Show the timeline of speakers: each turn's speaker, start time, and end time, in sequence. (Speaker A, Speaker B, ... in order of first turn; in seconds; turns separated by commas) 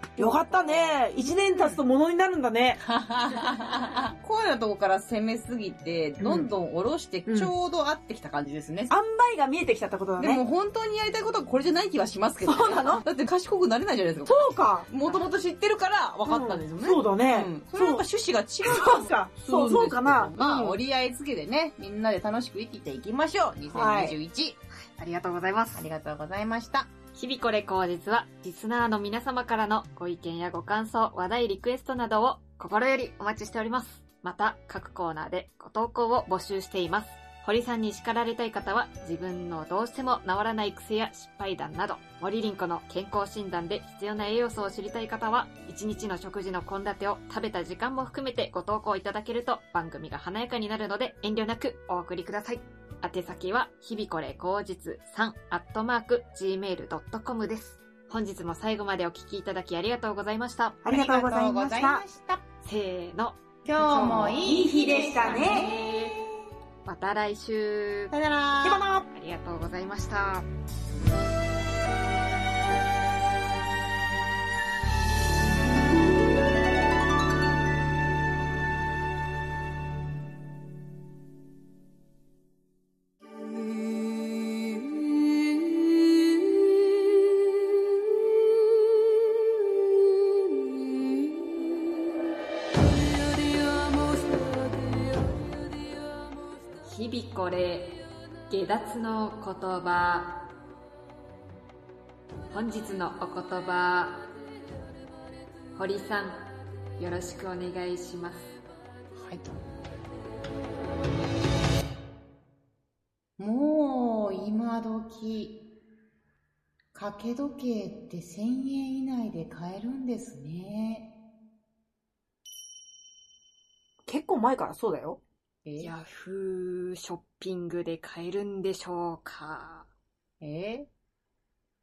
Speaker A: 0.2-2.8, Speaker B: 0.3-0.9, Speaker B: 1.5-1.8, Speaker B: 2.8-8.9, Speaker A: 6.2-6.5, Speaker A: 7.3-7.5, Speaker A: 8.9-10.4, Speaker B: 10.2-24.6, Speaker A: 12.4-13.0, Speaker A: 14.3-14.9, Speaker A: 16.3-18.1, Speaker A: 18.6-20.8, Speaker A: 23.7-24.2, Speaker C: 24.7-25.9, Speaker B: 25.8-26.9, Speaker C: 27.1-60.8, Speaker A: 60.8-62.0, Speaker B: 60.9-62.4, Speaker C: 62.6-66.2, Speaker B: 63.6-64.8, Speaker A: 64.4-65.7, Speaker C: 66.8-68.2, Speaker B: 68.1-68.8, Speaker A: 68.6-69.1, Speaker C: 69.1-70.5, Speaker B: 93.7-95.0, Speaker C: 96.8-100.5, Speaker C: 102.5-104.3, Speaker C: 105.8-108.6, Speaker B: 109.2-109.5, Speaker B: 113.4-115.6, Speaker B: 116.9-121.1, Speaker A: 124.1-125.2, Speaker B: 125.7-125.9, Speaker C: 125.8-129.9, Speaker B: 130.4-130.9